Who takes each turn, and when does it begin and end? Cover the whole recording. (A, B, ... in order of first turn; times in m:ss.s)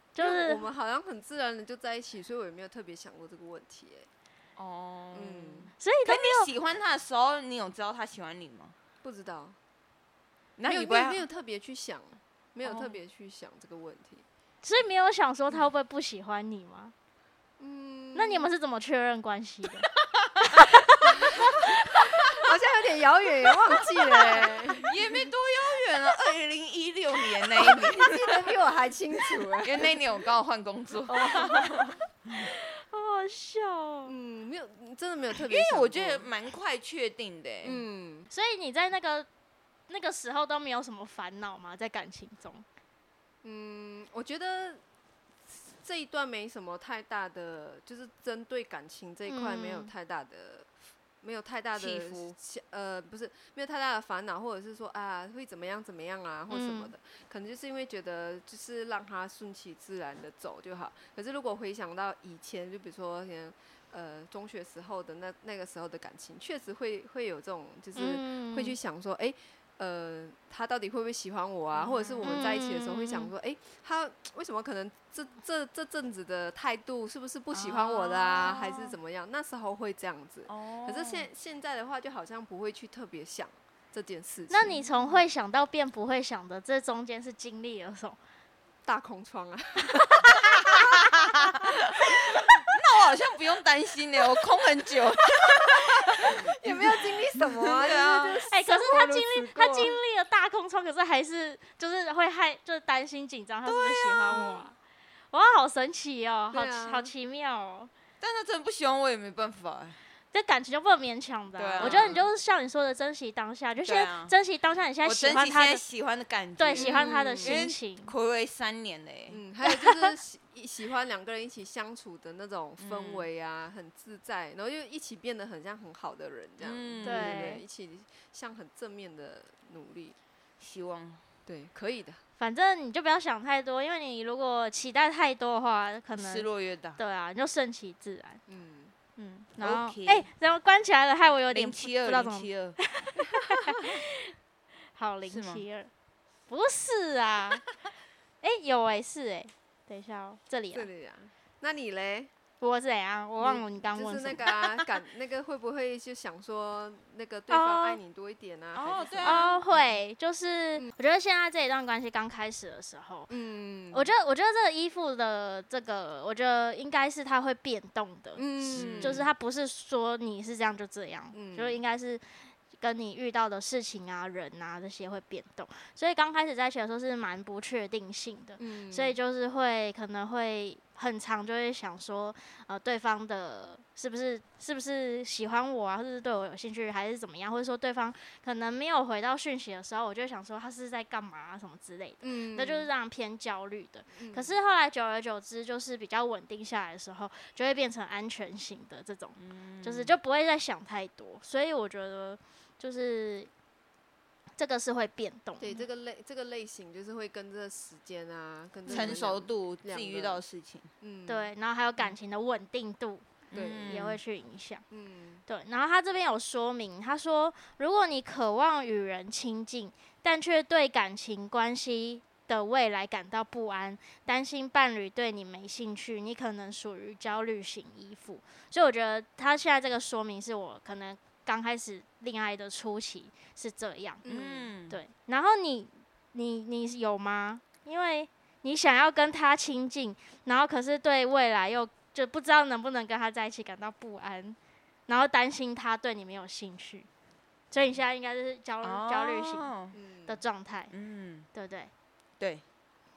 0:00.1-0:00.6 A
0:00.2-0:04.1 B
0:04.6-0:08.7 C
0:05.1-0:05.7 B
0:05.8-0:06.5 A
0:09.0-0:09.6 B
0:10.6-0:11.2 C
0:10.7-0:14.2 B
0:12.6-0:13.0 A
0:14.6-0:16.9 A
0:17.6-0:18.5 B
0:18.1-0:19.9 A
0:20.5-0:20.9 A
0:21.4-0:25.2 B
0:24.2-0:28.6 C
0:27.4-0:30.0 B
0:29.6-0:32.5 C
0:31.0-0:32.0 B
0:32.4-0:34.1 A
0:34.0-0:36.3 B
0:35.4-0:37.8 C
0:37.6-0:38.3 B
0:38.3-0:39.3 A
0:39.9-0:42.6 A
0:43.4-0:44.8 B
0:45.4-1:24.9 B
0:49.3-0:49.9 A
0:51.7-0:52.3 C
0:56.5-0:56.9 A
1:08.0-1:08.8 A
1:11.7-1:12.3 C
1:12.2-1:13.3 A
1:18.1-1:18.6 A
1:18.3-1:18.6 C
1:20.5-1:21.3 C
1:24.5-1:28.2 A
1:28.8-1:30.8 B
1:30.6-1:38.4 C
1:36.2-1:40.0 B
1:38.5-1:44.7 A
1:43.6-1:44.6 C
1:44.3-1:44.6 B
1:45.3-1:47.9 A
1:46.5-1:47.1 B
1:48.2-1:50.0 C
1:50.3-1:55.8 A
1:51.6-1:52.2 C
1:51.8-1:52.2 B
1:53.8-1:54.3 C
1:55.0-1:59.4 C
1:56.6-1:58.1 A
1:56.8-1:57.6 B
1:59.3-2:10.2 B
2:02.8-2:03.2 C
2:06.6-2:07.6 C
2:07.0-2:07.6 A
2:10.6-2:11.2 C
2:11.4-2:12.2 B
2:12.4-2:18.4 A
2:16.2-2:17.0 C
2:18.5-2:18.9 B
2:19.2-2:24.3 A
2:19.5-2:20.2 C
2:21.5-2:22.8 C
2:24.9-2:25.9 A
2:25.2-2:25.6 C
2:26.5-2:27.6 A
2:28.4-2:30.9 A
2:30.7-2:32.3 B
2:32.6-2:34.4 A
2:33.4-2:40.0 B
2:37.5-2:38.0 A
2:38.7-2:39.4 C
2:39.2-2:43.3 A
2:43.3-2:44.1 B
2:43.9-3:23.5 A
2:48.4-2:49.3 B
2:48.7-2:49.2 C
2:51.3-2:51.7 B
2:58.6-2:59.2 B
3:12.2-3:12.9 B
3:14.1-3:14.5 B
3:19.4-3:20.2 C
3:24.6-3:25.8 A
3:25.6-3:30.4 B
3:28.9-3:30.9 C
3:28.9-3:29.1 A
3:31.0-3:31.5 B
3:31.3-3:34.8 A
3:33.5-3:34.1 B
3:33.5-3:34.2 C
3:34.9-3:35.4 B
3:35.5-3:54.2 A
3:54.2-3:54.7 B
3:54.2-3:55.0 C
3:54.9-4:07.1 A
4:07.7-4:09.7 A
4:08.8-4:10.0 C
4:09.9-4:10.4 B
4:10.3-4:10.9 A
4:10.9-4:11.5 C
4:11.5-4:11.9 A